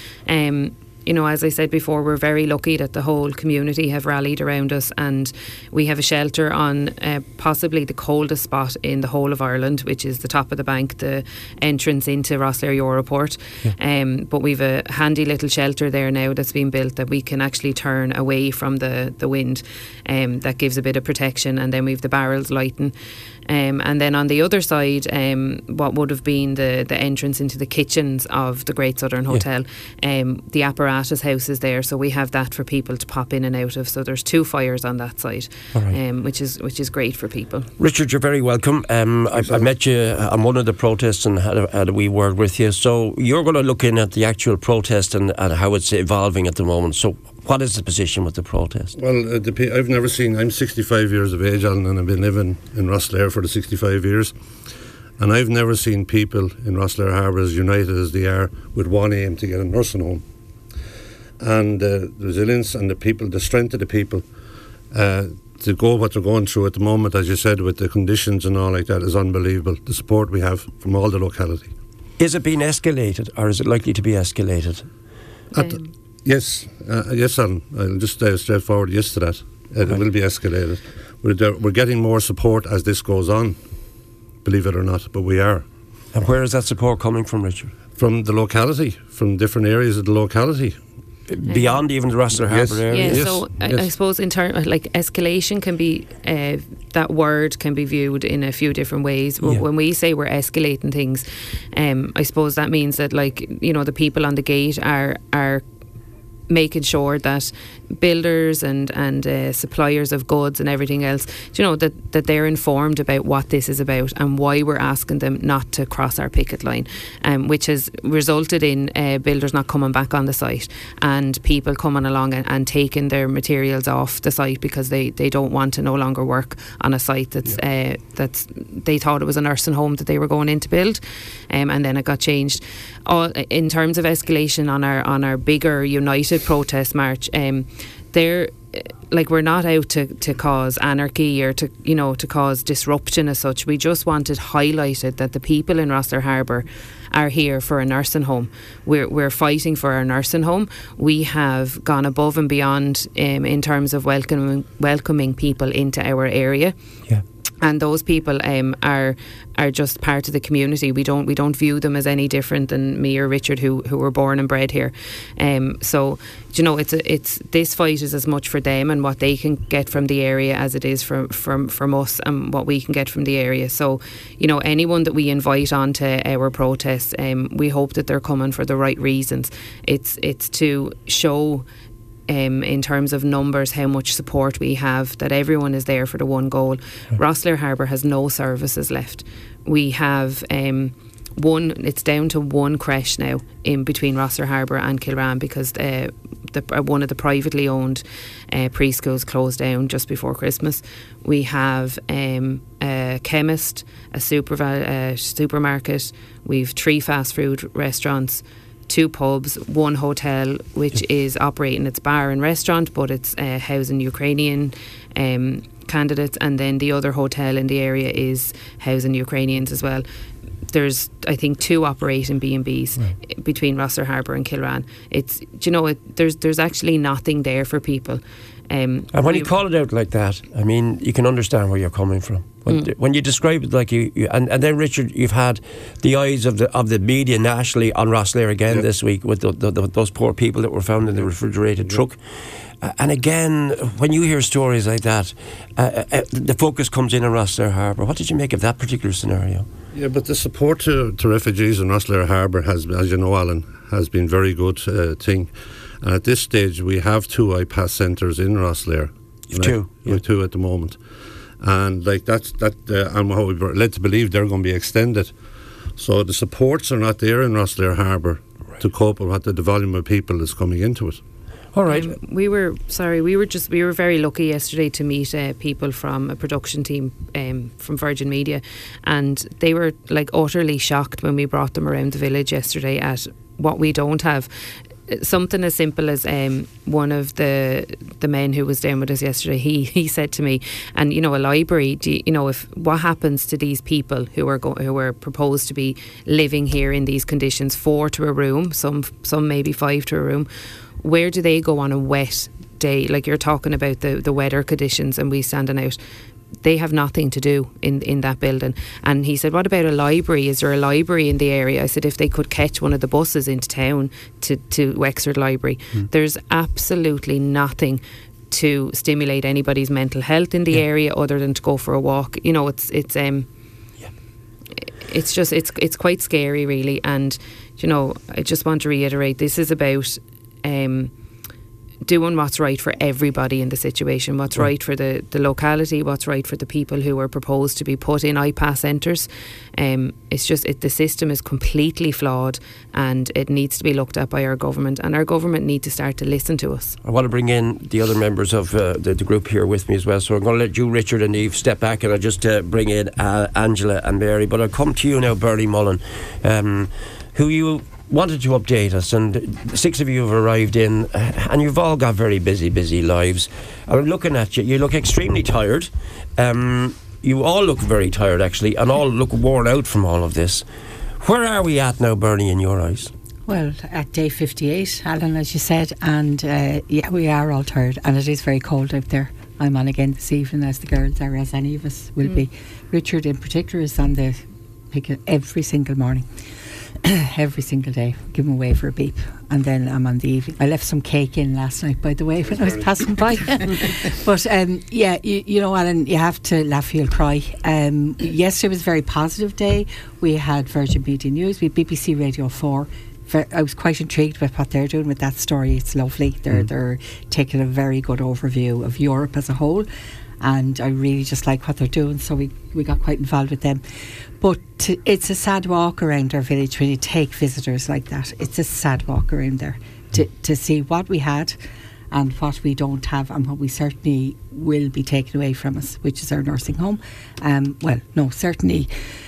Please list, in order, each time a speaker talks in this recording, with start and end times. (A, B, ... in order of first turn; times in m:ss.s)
0:00.3-0:37.7 A
0:37.8-0:48.9 B
0:39.3-0:39.7 C
0:49.0-0:54.3 C
0:55.2-1:00.2 C
1:01.4-1:04.2 C
1:04.9-1:11.7 C
1:12.2-1:14.9 B
1:15.6-1:15.9 A
1:16.2-1:23.6 C
1:24.4-1:25.7 C
1:26.1-1:27.7 B
1:28.0-1:30.8 C
1:31.3-1:33.4 B
1:31.5-1:31.8 A
1:32.5-1:33.8 C
1:32.9-1:45.6 A
1:46.5-2:36.8 A
2:37.6-3:01.7 A
3:02.3-3:40.1 A
3:40.7-3:49.5 A
3:49.1-4:02.2 B
4:02.8-4:09.7 B
4:09.9-4:15.5 C
4:16.0-4:21.0 C
4:19.5-4:20.2 B
4:21.6-4:25.3 C
4:26.0-4:31.2 C
4:31.7-4:32.1 B
4:31.9-5:00.5 A
5:01.0-5:06.0 A
5:06.6-5:23.5 A
5:25.0-5:31.1 A
5:32.0-5:47.0 A
5:47.0-6:10.6 B
6:11.2-6:13.1 B
6:13.5-6:26.2 D
6:27.0-6:49.9 D
6:50.4-6:53.8 D
6:54.4-7:01.6 D
7:02.1-7:08.9 D